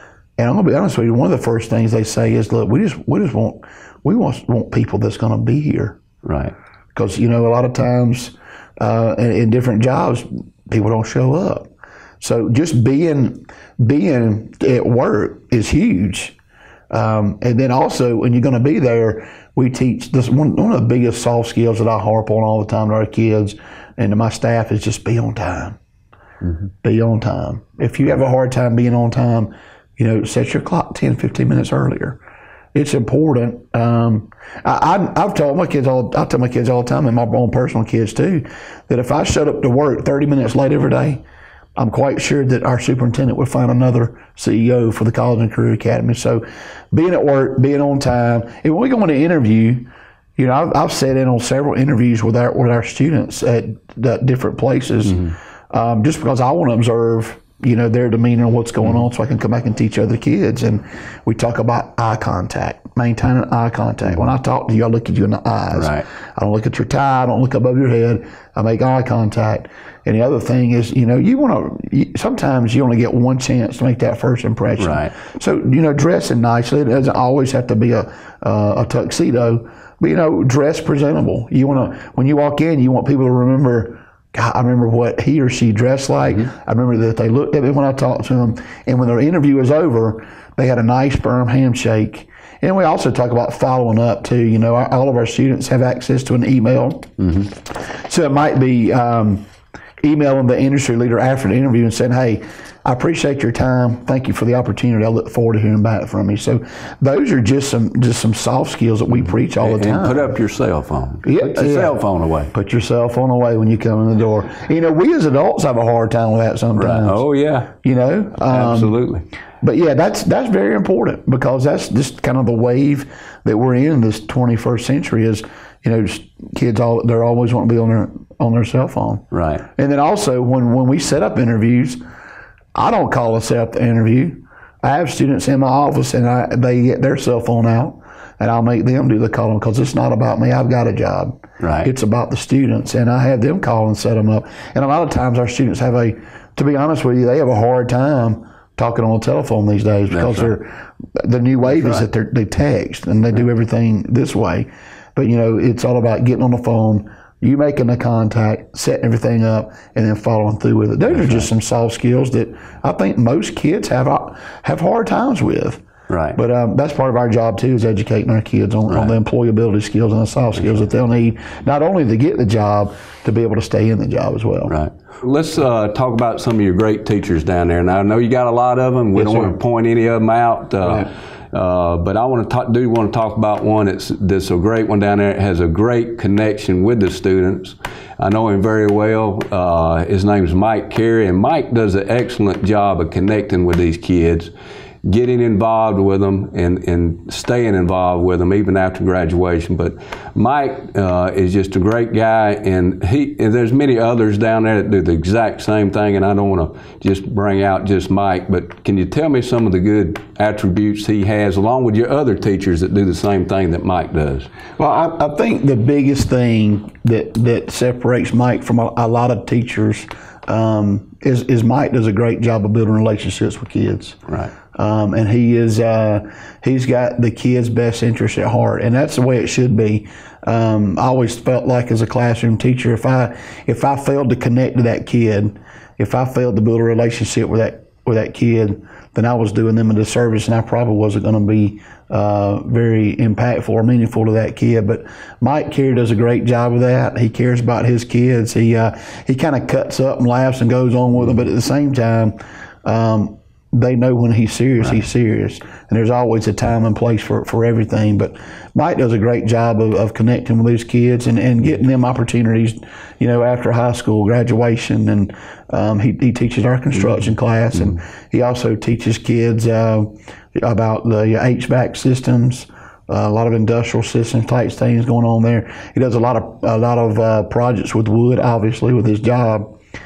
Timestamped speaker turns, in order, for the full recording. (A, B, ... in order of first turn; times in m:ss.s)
0:00.4-0:06.0 A
0:06.2-0:06.5 B
0:06.9-0:11.7 A
0:12.2-0:16.3 A
0:16.9-0:25.8 A
0:26.8-0:32.2 A
0:32.7-0:41.2 A
0:41.8-1:39.4 A
1:05.7-1:06.1 B
1:14.8-1:15.1 B
1:40.0-1:50.3 A
1:49.3-1:52.5 B
1:51.2-1:57.2 A
1:56.7-1:57.7 B
1:57.8-1:59.0 A
1:58.5-1:59.2 B
1:59.6-2:12.0 A
2:09.3-2:09.6 B
2:12.7-2:45.8 A
2:21.6-2:21.9 B
2:30.1-2:30.5 B
2:31.7-2:32.0 B
2:41.1-2:41.5 B
2:46.1-2:46.4 B
2:46.3-2:54.7 A
2:48.9-2:49.2 B
2:54.7-3:14.5 B
2:59.1-2:59.5 A
3:15.0-3:34.5 B
3:34.8-3:44.2 A
3:44.7-4:39.7 A